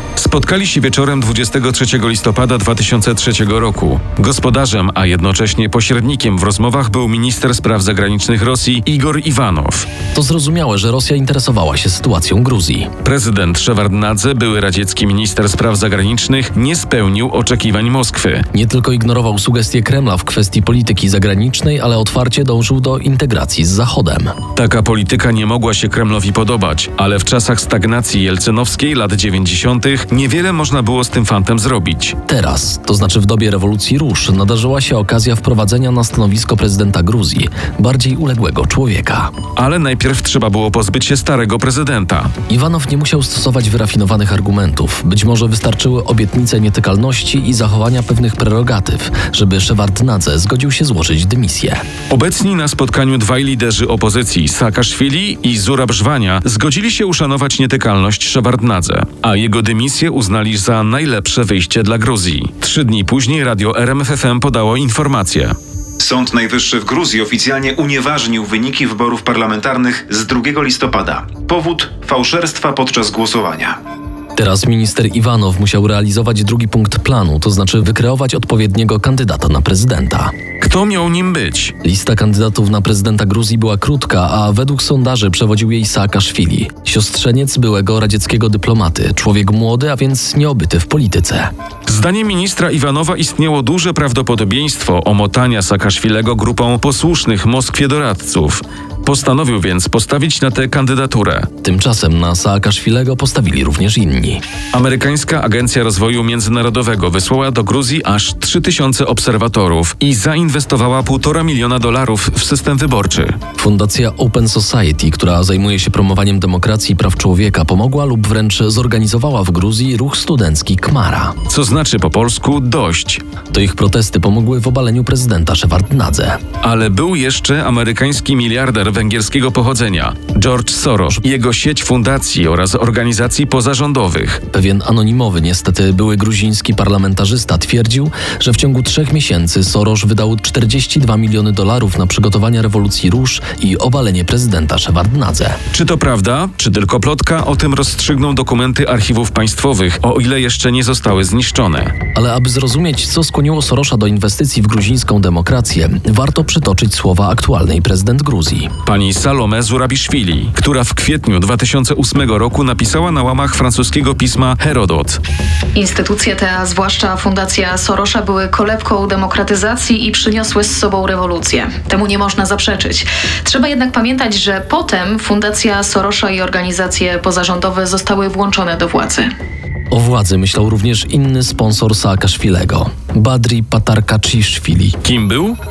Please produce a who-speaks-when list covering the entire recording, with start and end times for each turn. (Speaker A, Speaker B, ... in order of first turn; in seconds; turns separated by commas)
Speaker A: 0.2-9.8, Speaker B: 10.1-12.9, Speaker A: 13.0-18.4, Speaker B: 18.5-24.4, Speaker A: 24.5-32.1, Speaker B: 32.2-39.3, Speaker A: 39.5-42.3, Speaker B: 42.5-51.8, Speaker A: 52.1-65.5, Speaker C: 66.0-73.8, Speaker B: 74.3-80.3, Speaker A: 80.6-81.7, Speaker B: 81.8-91.5, Speaker A: 91.9-101.5, Speaker B: 101.6-104.4, Speaker A: 104.7-113.3, Speaker B: 113.6-121.4, Speaker A: 121.5-123.2, Speaker B: 123.5-126.4, Speaker A: 126.6-134.4, Speaker B: 134.5-145.6, Speaker A: 145.7-151.9, Speaker B: 152.1-158.7, Speaker A: 158.8-165.2, Speaker D: 165.7-179.3, Speaker B: 179.9-185.0, Speaker A: 185.0-185.5